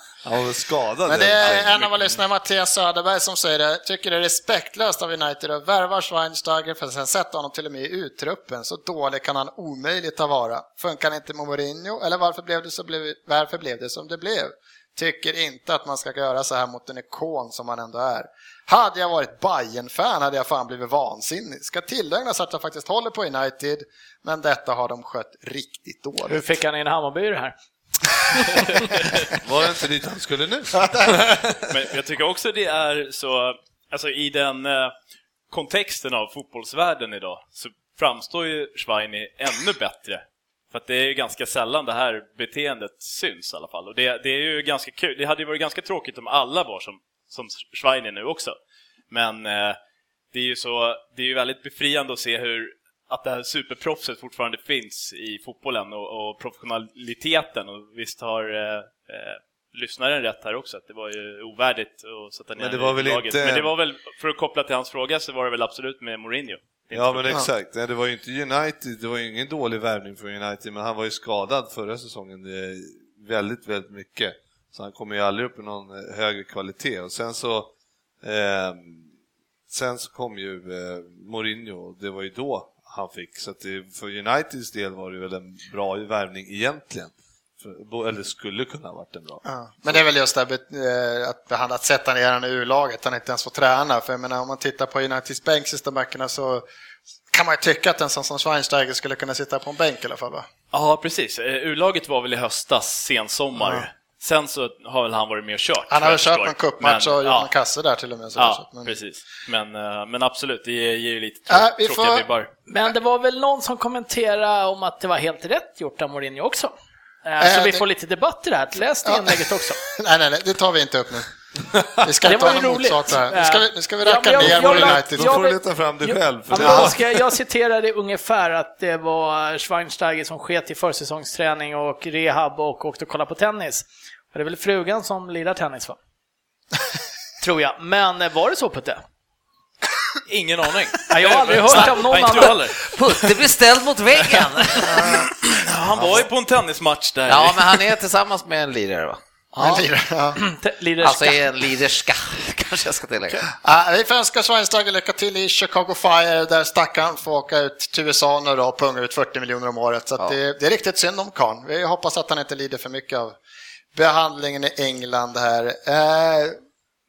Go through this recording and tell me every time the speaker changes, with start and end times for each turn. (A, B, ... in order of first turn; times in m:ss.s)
0:00.2-0:02.2 A
0:01.0-0:26.4 B
0:26.2-0:27.5 C
0:29.4-0:31.7 A
0:30.9-0:31.2 B
0:31.7-0:34.9 D
0:35.5-0:48.5 D
0:49.1-0:49.8 D
0:50.3-1:07.4 D
1:02.6-1:03.7 A
1:06.9-1:19.1 A
1:19.7-1:30.0 A
1:29.4-1:36.6 B
1:37.3-1:40.5 B
1:40.7-1:47.5 D
1:43.6-1:43.8 B
1:45.9-1:48.9 B
1:48.4-1:52.5 D
1:51.5-1:52.2 B
1:52.7-1:56.7 C
1:57.2-1:59.8 C
1:57.4-1:57.8 B
1:59.0-2:01.3 B
2:02.0-2:05.3 B
2:02.2-2:16.0 C
2:04.4-2:07.2 A
2:06.6-2:06.9 B
2:17.4-2:19.0 C
2:20.3-2:22.9 D
2:21.1-2:22.7 C
2:22.4-2:25.2 E
2:24.2-2:27.9 D
2:24.9-2:25.3 B
2:27.3-2:29.2 E
2:29.5-2:29.8 C
2:29.6-2:30.4 B
2:30.4-2:31.4 C
2:31.0-2:33.5 E
2:33.6-2:43.4 B
2:43.9-2:46.6 B